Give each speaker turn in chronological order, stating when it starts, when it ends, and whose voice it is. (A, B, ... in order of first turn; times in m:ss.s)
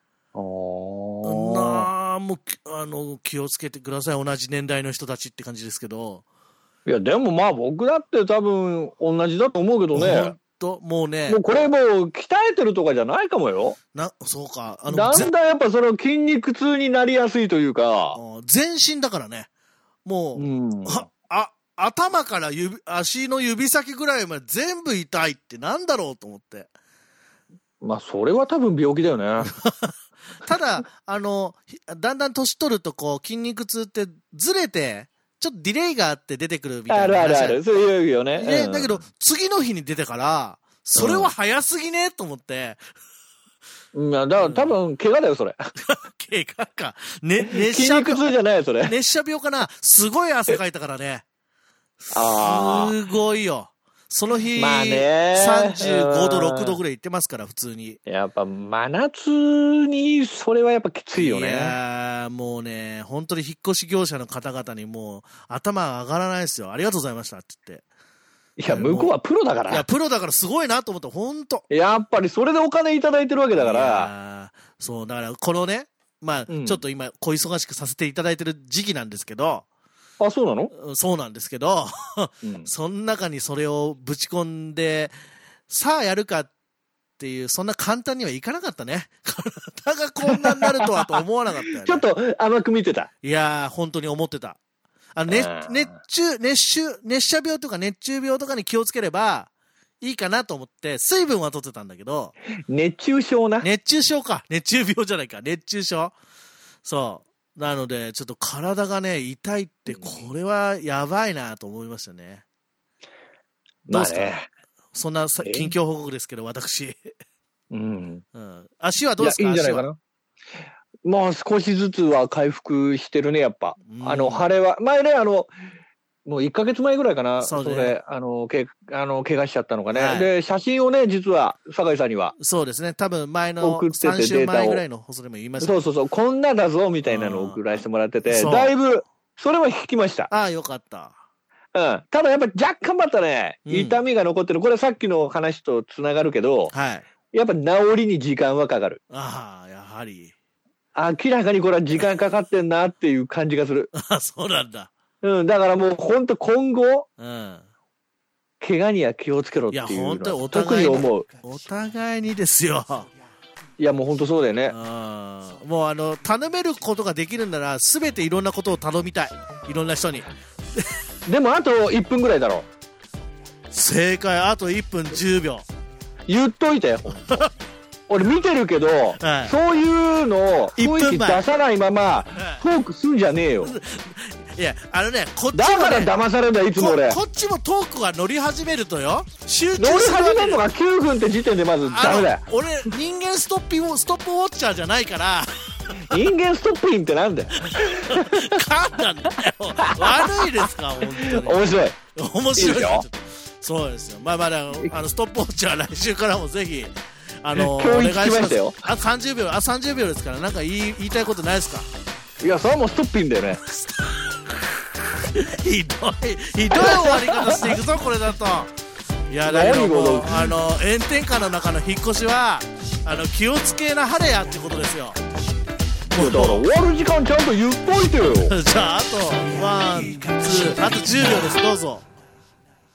0:00.3-0:01.9 A
0:01.2-0:06.2 B
0:06.8-0:10.3 A
0:09.9-0:11.4 B
0:11.3-0:13.8 A
0:13.9-0:15.3 B
0:14.9-0:18.2 A
0:18.1-0:19.5 B
0:20.0-0:26.7 B
0:20.4-0:21.0 A
0:27.8-0:29.5 A
0:29.6-0:37.6 B
0:36.9-0:38.9 A
0:38.4-0:42.8 B
0:40.9-0:41.3 A
0:43.9-0:45.6 A
0:44.4-0:44.8 B
0:45.8-0:48.3 B
0:47.4-0:48.9 A
0:48.8-0:51.2 B
0:52.0-0:58.0 B
0:52.1-0:52.9 A
0:54.5-0:56.8 A
0:58.1-1:01.8 A
1:01.2-1:07.8 B
1:08.6-1:09.8 A
1:08.7-1:09.1 B
1:09.7-1:11.6 B
1:11.7-1:14.1 A
1:13.5-1:19.6 B
1:16.5-1:16.8 A
1:20.2-1:20.7 A
1:20.7-1:25.1 B
1:22.4-1:22.7 A
1:25.7-1:26.5 B
1:27.2-1:32.0 B
1:30.3-1:30.8 A
1:31.7-1:33.1 A
1:33.2-1:34.6 B
1:35.2-1:39.5 B
1:35.3-1:35.9 A
1:40.0-1:42.3 B
1:42.7-1:43.7 A
1:43.6-1:46.1 B
1:46.8-1:52.4 B
1:49.9-1:50.2 A
1:53.9-1:54.5 A
1:53.9-1:54.4 B
1:54.9-1:57.1 B
1:55.4-1:55.7 A
1:57.7-1:58.2 A
1:58.3-1:59.8 B
1:59.2-2:00.0 A
2:01.0-2:05.5 A
2:03.8-2:04.5 B
2:06.2-2:12.3 A
2:07.4-2:08.0 B
2:09.9-2:10.3 B
2:12.4-2:15.8 B
2:13.6-2:14.8 A
2:15.6-2:20.3 A
2:17.0-2:18.7 B
2:20.3-2:21.2 B
2:21.7-2:26.7 A
2:23.6-2:24.0 B
2:26.7-2:27.0 B
2:27.3-2:29.0 A
2:29.1-2:30.3 B
2:30.9-2:33.9 A
2:33.9-2:34.9 B
2:35.2-2:37.1 A
2:37.2-2:37.6 B
2:38.6-2:41.3 A
2:39.7-2:43.1 B
2:43.8-2:44.7 A
2:44.7-2:50.3 B
2:51.3-2:52.6 A
2:53.7-2:55.6 B
2:56.3-2:57.4 A
2:57.1-2:57.5 B
2:58.1-3:03.7 A
2:59.2-2:59.5 B
3:00.8-3:01.4 B
3:02.3-3:02.6 B
3:03.6-3:06.1 B
3:05.5-3:07.2 A
3:06.8-3:10.6 B
3:09.8-3:12.4 A
3:11.8-3:16.2 B
3:16.1-3:18.4 A
3:17.6-3:31.9 B
3:19.9-3:20.3 A
3:21.2-3:22.0 A
3:22.6-3:23.0 A
3:27.5-3:28.8 A
3:32.4-3:33.6 A
3:33.6-3:38.7 B
3:36.7-3:37.8 A
3:39.3-3:45.2 B
3:39.4-3:40.5 A
3:46.1-3:46.7 B
3:46.2-3:48.5 A
3:48.5-3:52.1 B